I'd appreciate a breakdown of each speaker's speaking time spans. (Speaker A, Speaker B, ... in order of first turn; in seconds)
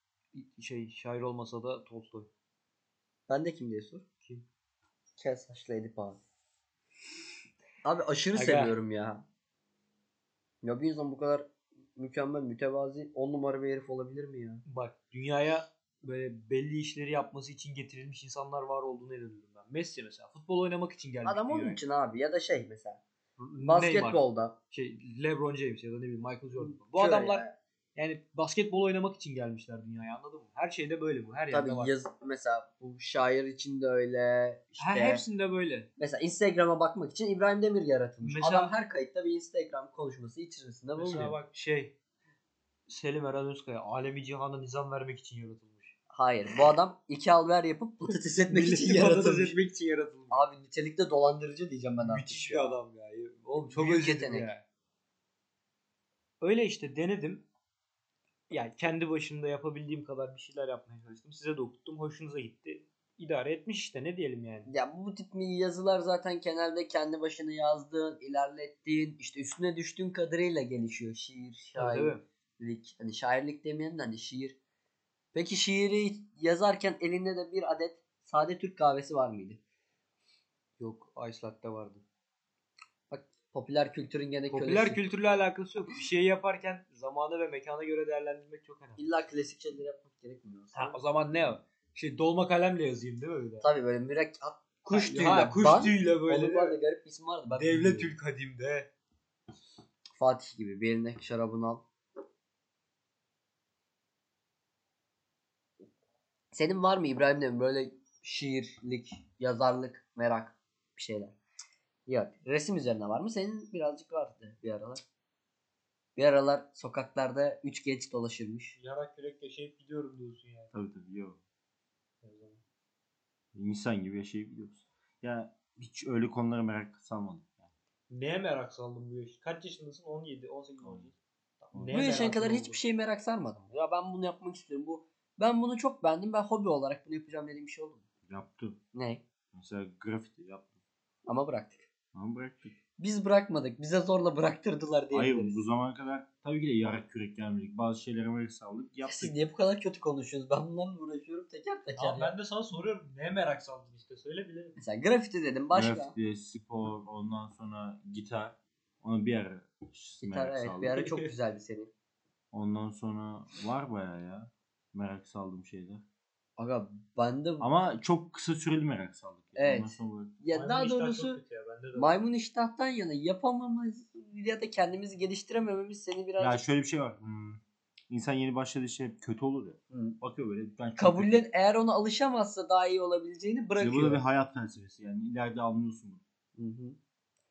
Speaker A: 0.3-2.3, 8.3-8.8, 14.7-21.8, 23.4-31.9, 34.8-35.9, 38.2-38.7, 41.0-41.9, 42.9-45.9, 48.5-50.4, 52.0-54.6, 56.4-57.4, 58.5-64.7, 71.8-72.2, 80.8-82.0, 84.5-89.1, 90.7-93.7, 94.9-96.8, 97.5-98.9, 118.8-120.7, 122.2-122.6, 128.1-132.8, 152.0-154.8, 161.0-161.3, 170.5-172.2
Speaker B: 3.3-4.1, 5.2-6.2, 7.8-9.2, 10.6-14.6, 21.2-23.0, 23.6-24.6, 26.6-27.5, 31.5-35.2, 36.0-41.4, 46.1-49.6, 50.3-52.8, 53.7-54.5, 64.7-74.6, 75.3-79.6, 83.1-85.0, 89.0-91.0, 93.6-98.1, 100.2-101.8, 106.5-111.3, 112.1-115.0, 116.2-118.8, 131.9-138.0, 138.9-139.2, 141.3-141.9, 143.0-145.6, 149.1-152.3, 154.8-156.1, 160.2-161.9, 166.6-167.7, 169.6-171.4, 171.9-176.7, 179.9-180.2, 181.0-184.2, 186.6-187.0
Speaker C: 120.7-121.4, 123.5-127.7, 131.7-132.2, 138.3-138.8, 139.5-140.7, 142.1-142.8, 145.1-149.3, 155.7-161.1, 162.5-166.1, 167.6-170.3, 176.4-181.5, 183.8-186.2